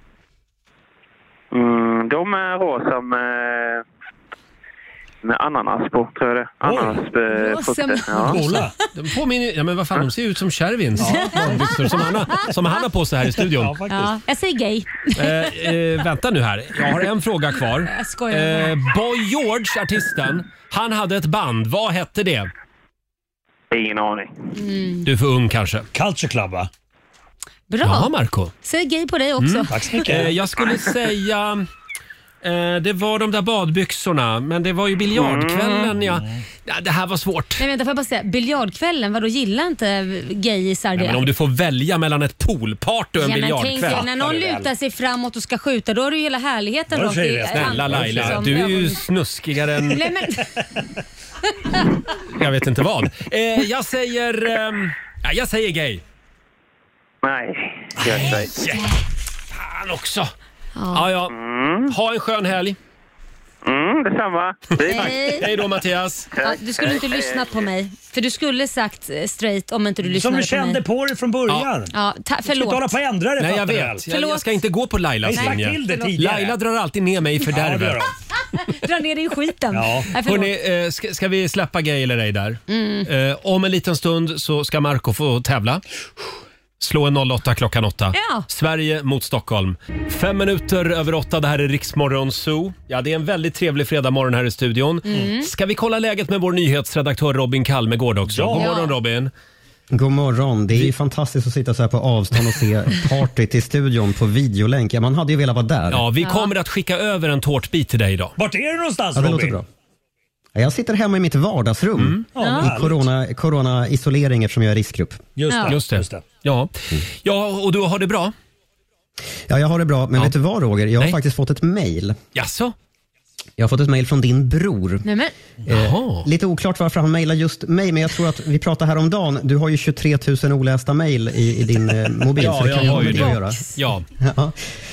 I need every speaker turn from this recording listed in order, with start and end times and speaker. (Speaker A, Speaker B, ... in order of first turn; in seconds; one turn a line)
Speaker A: 1.5-3.8
Speaker A: 5.2-8.4
Speaker B: 6.6-7.0
Speaker C: 7.3-8.5
Speaker B: 8.2-8.7
Speaker D: 8.3-13.8
Speaker B: 11.0-11.8
Speaker C: 11.0-12.5
Speaker B: 13.4-14.2
Speaker C: 13.9-15.5
Speaker D: 15.1-22.5
Speaker C: 17.9-18.8
Speaker A: 23.7-24.3
Speaker C: 24.6-25.1
Speaker D: 25.0-25.9
Speaker B: 25.9-26.7
Speaker C: 27.7-28.1
Speaker D: 27.8-28.5
Speaker C: 28.6-29.7
Speaker D: 29.4-31.6
Speaker B: 29.7-30.4
Speaker D: 32.4-37.6
Speaker A: 35.1-35.9
Speaker B: 36.0-36.4
Speaker C: 37.6-41.2
Speaker D: 41.0-44.1
Speaker C: 43.2-49.0
Speaker B: 43.8-44.7
Speaker B: 46.9-48.6
Speaker D: 47.5-50.0
Speaker C: 49.9-50.6
Speaker D: 52.3-56.0
Speaker A: 57.2-58.5
Speaker B: 58.0-58.8
Speaker D: 59.5-60.3
Speaker C: 60.7-61.1
Speaker D: 60.9-61.3
Speaker A: 61.3-62.0
Speaker D: 61.9-62.8
Speaker A: 63.6-65.4
Speaker D: 64.8-66.3
Speaker C: 64.8-65.5
Speaker A: 66.3-67.7
Speaker C: 66.4-70.8
Speaker B: 70.0-71.9
Speaker C: 71.9-73.0
Speaker B: 72.5-74.1
Speaker D: 73.4-78.0
Speaker C: 74.1-74.5
Speaker B: 75.2-76.5
Speaker C: 75.3-76.2
Speaker B: 77.5-78.1
Speaker C: 78.5-80.5
Speaker B: 79.7-80.1
Speaker D: 80.2-85.8
Speaker C: 82.7-83.1
Speaker D: 86.8-99.3
Speaker C: 88.1-88.5
Speaker C: 95.0-95.5
Speaker B: 98.3-98.7
Speaker C: 98.5-98.9
Speaker E: 99.9-106.0
Speaker D: 105.9-108.3
Speaker C: 106.2-106.5
Speaker B: 108.4-109.6
Speaker E: 109.1-109.7
Speaker E: 110.5-115.3
Speaker D: 112.0-112.2
Speaker B: 112.3-113.1
Speaker C: 112.4-112.7
Speaker B: 115.3-116.2
Speaker C: 115.5-115.7
Speaker D: 115.7-118.3
Speaker E: 119.5-122.2
Speaker D: 122.3-122.7
Speaker E: 123.6-125.0
Speaker C: 125.0-125.3
Speaker E: 125.7-134.5
Speaker D: 125.7-126.3
Speaker D: 132.4-134.0
Speaker C: 132.7-133.8